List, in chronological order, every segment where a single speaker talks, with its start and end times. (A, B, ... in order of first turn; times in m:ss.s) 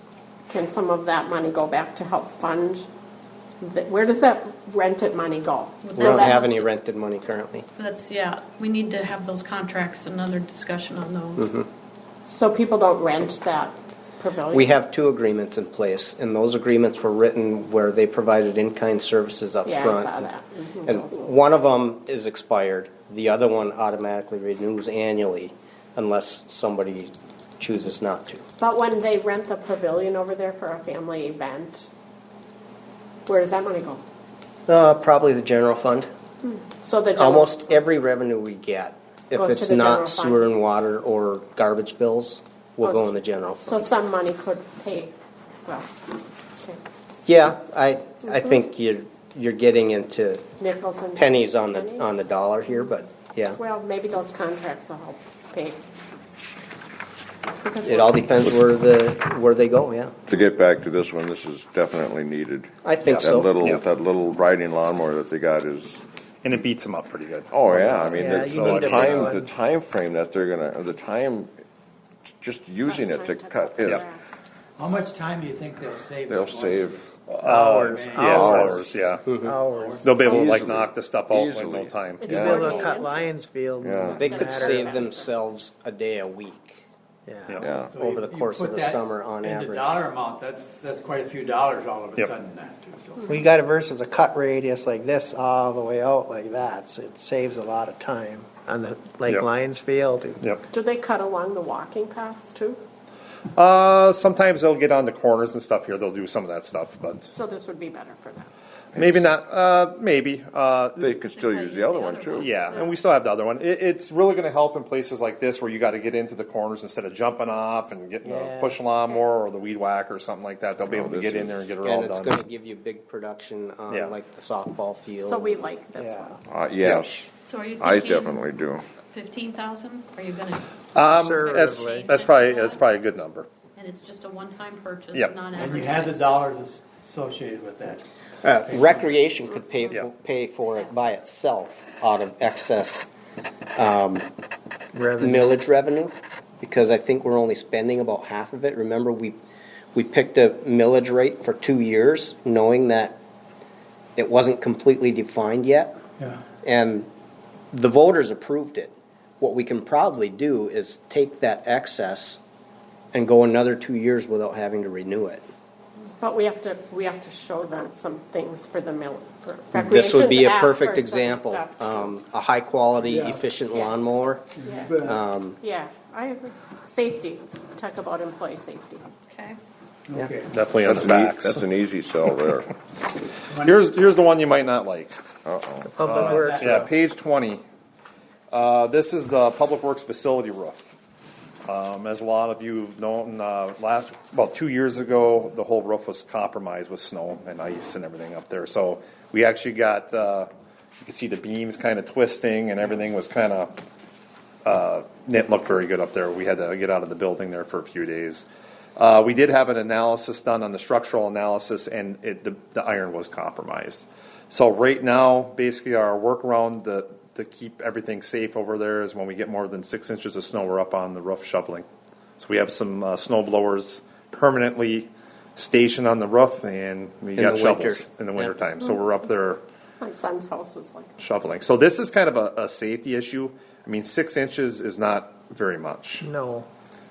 0:00.5-0:02.9 A
0:03.6-0:06.4 A
0:05.8-0:06.7 B
0:06.0-0:07.7 C
0:07.8-0:11.6 B
0:12.3-0:14.7 A
0:14.5-0:20.3 C
0:19.6-0:21.3 A
0:20.9-0:28.4 C
0:28.6-0:31.9 A
0:33.3-0:34.0 A
0:34.7-0:36.1 C
0:36.4-0:37.8 A
0:37.2-0:43.9 C
0:39.4-0:40.4 A
0:42.8-0:43.1 A
0:43.6-0:45.1 A
0:45.7-0:46.8 A
0:47.3-0:50.4 C
0:50.6-0:52.2 A
0:51.2-0:53.6 C
0:53.6-0:55.8 A
0:57.6-0:58.2 A
0:57.8-1:00.2 C
1:00.3-1:06.0 D
1:02.8-1:03.5 C
1:03.1-1:03.8 E
1:06.4-1:09.4 E
1:07.5-1:11.5 D
1:08.2-1:09.5 F
1:12.4-1:14.0 D
1:12.9-1:14.4 A
1:14.8-1:16.9 G
1:16.3-1:17.0 D
1:17.3-1:19.3 E
1:17.4-1:18.8 F
1:17.9-1:18.9 G
1:18.3-1:18.8 D
1:19.4-1:20.0 F
1:19.7-1:20.3 G
1:20.0-1:22.4 E
1:20.2-1:22.9 D
1:22.2-1:25.3 A
1:22.3-1:25.0 F
1:23.8-1:24.3 D
1:24.1-1:26.8 C
1:27.3-1:27.6 F
1:27.6-1:27.9 D
1:27.8-1:33.2 G
1:28.0-1:30.0 C
1:33.3-1:40.4 F
1:40.7-1:42.8 A
1:43.6-1:47.3 E
1:47.3-1:48.5 A
1:49.0-1:49.2 D
1:49.0-1:51.1 E
1:51.0-1:52.5 D
1:51.2-1:52.9 B
1:52.4-2:02.4 E
1:58.2-1:58.9 F
2:00.8-2:01.7 D
2:01.8-2:05.7 C
2:05.2-2:06.4 A
2:06.0-2:06.3 F
2:06.5-2:07.3 D
2:07.4-2:10.7 B
2:07.8-2:08.8 D
2:11.0-2:13.5 E
2:11.1-2:12.1 F
2:11.5-2:12.8 B
2:13.8-2:16.3 B
2:15.6-2:18.0 G
2:18.4-2:23.1 C
2:18.7-2:18.9 G
2:23.8-2:24.3 C
2:24.9-2:25.6 F
2:25.2-2:29.4 C
2:30.0-2:33.2 C
2:34.2-2:36.0 C
2:36.2-2:36.4 G
2:36.6-2:37.1 C
2:37.7-2:42.4 C
2:43.1-2:45.4 C
2:46.2-2:52.1 A
2:49.7-2:54.5 C
2:54.6-2:55.2 G
2:54.6-2:55.1 A
2:55.0-2:55.6 C
2:55.6-2:59.0 A
2:59.3-2:59.6 B
3:00.1-3:00.5 G
3:00.5-3:01.6 E
3:00.8-3:02.7 D
3:03.5-3:03.8 G
3:03.5-3:05.2 E
3:05.4-3:06.0 D
3:05.9-3:06.9 F
3:06.0-3:07.6 E
3:06.1-3:06.9 G
3:08.5-3:10.8 E
3:11.7-3:20.5 E
3:21.0-3:23.8 E
3:24.6-3:41.8 E
3:42.4-3:49.6 E
3:47.4-3:48.5 C
3:50.0-3:51.1 A
3:51.2-3:56.3 E
3:56.2-3:56.7 F